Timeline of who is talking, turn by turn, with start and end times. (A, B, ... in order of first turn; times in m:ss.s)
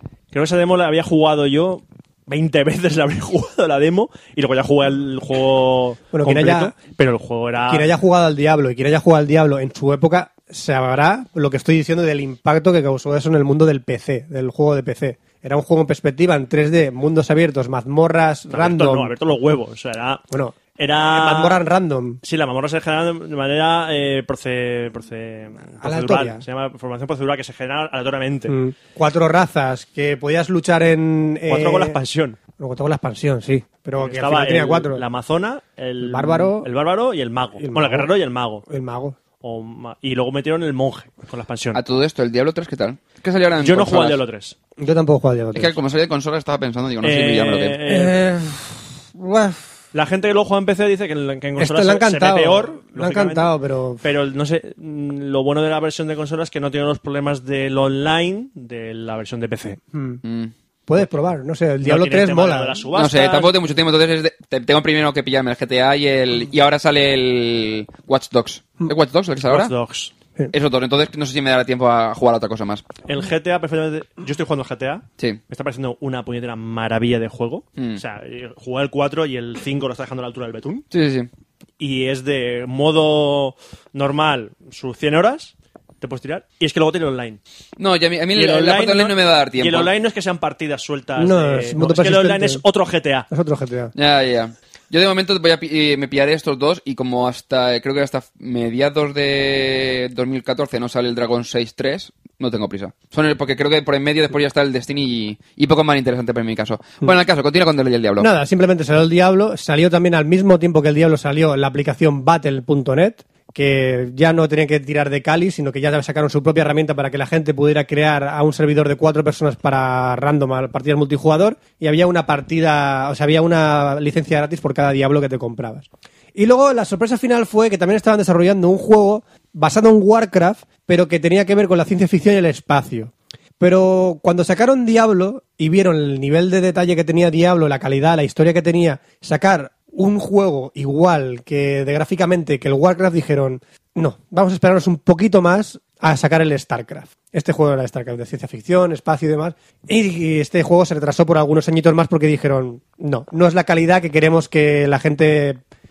0:00.3-0:07.9 A
0:06.1-0:06.7 B
0:07.7-0:19.1 B
0:18.5-0:20.2 A
0:20.3-0:20.6 B
0:20.8-0:21.6 A
0:21.1-0:22.2 B
0:22.2-0:28.6 A
0:25.8-0:26.4 B
0:28.5-0:32.0 B
0:31.5-0:32.4 A
0:32.6-0:35.0 B
0:34.0-0:38.6 A
0:36.0-0:36.7 B
0:37.6-0:38.1 B
0:38.7-0:39.2 B
0:39.4-0:41.8 A
0:41.7-0:44.2 C
0:43.6-0:44.6 A
0:44.8-0:45.7 B
0:45.5-0:47.9 C
0:47.0-0:48.2 A
0:47.9-0:49.6 B
0:49.9-0:53.5 A
0:51.6-0:54.0 B
0:54.0-0:59.8 A
0:59.9-1:00.2 B
1:00.2-1:00.5 C
1:00.9-1:02.9 B
1:01.8-1:03.5 A
1:03.0-1:09.7 C
1:09.4-1:10.1 A
1:10.5-1:12.8 C
1:13.1-1:20.9 A
1:20.9-1:21.3 C
1:21.8-1:27.4 A
1:27.8-1:29.9 C
1:28.3-1:33.3 A
1:31.2-1:32.6 B
1:33.3-1:33.9 B
1:34.0-1:48.3 C
1:48.2-2:35.6 B